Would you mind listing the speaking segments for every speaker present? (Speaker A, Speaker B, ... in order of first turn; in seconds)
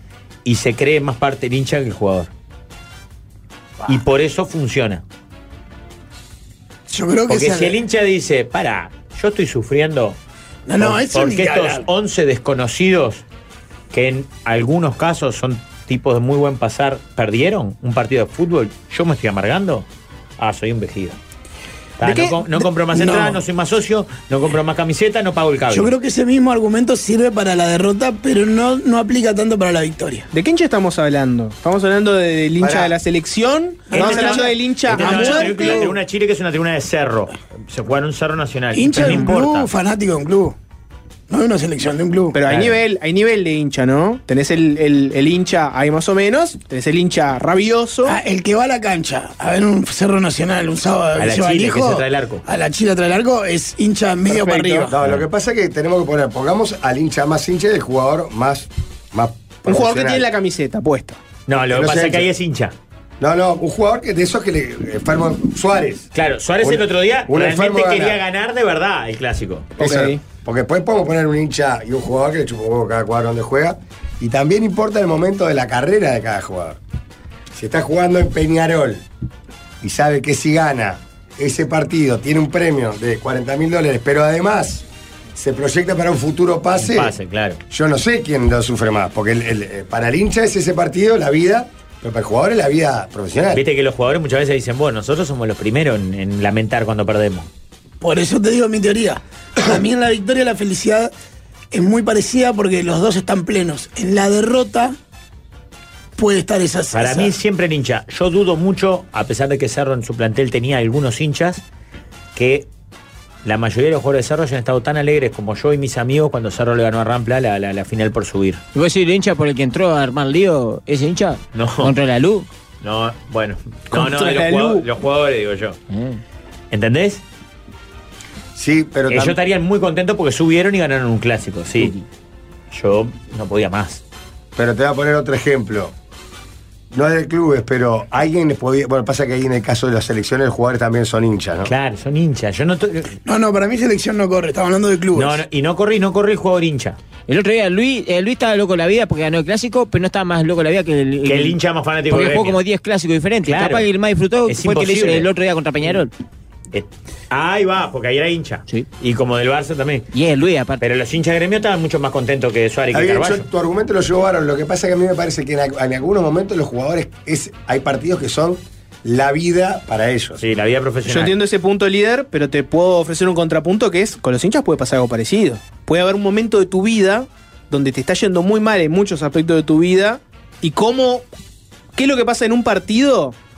Speaker A: 0.5-2.3, 3.9-5.0, 7.3-10.2, 10.8-13.2, 13.9-19.9, 20.4-21.2, 22.0-25.9, 33.9-39.7, 42.5-42.8, 51.2-52.4, 61.5-62.8, 66.1-69.8, 86.8-87.6, 93.5-97.5, 106.9-111.6, 112.3-112.7, 113.4-118.6, 121.5-121.9, 122.8-125.8, 126.7-127.2, 129.1-131.9, 132.7-134.0, 141.7-143.2, 145.1-147.0, 151.2-152.6, 153.5-153.8, 154.5-155.3, 156.7-160.1, 160.8-163.4, 170.4-171.4
Speaker B: 6.9-7.8, 10.7-11.9, 22.9-23.4, 25.7-30.3, 33.9-36.0, 38.7-40.6, 41.3-42.4, 48.0-55.0, 98.0-101.1, 101.7-105.0, 106.2-107.3, 143.2-145.4
Speaker C: 22.0-22.4, 30.3-35.9, 42.3-48.1, 59.7-61.2, 69.8-70.2, 123.9-124.9, 171.1-181.3, 181.9-183.4
Speaker D: 32.6-32.9, 54.3-60.3, 61.7-62.3, 63.2-66.1, 66.6-68.2, 69.8-76.8, 77.5-79.0, 79.8-84.8, 85.4-87.1, 87.7-93.6, 128.6-129.4, 134.6-135.9, 136.9-141.7, 162.9-170.4
Speaker E: 118.8-122.5, 125.9-126.2, 147.3-151.6, 152.1-156.1, 160.1-160.8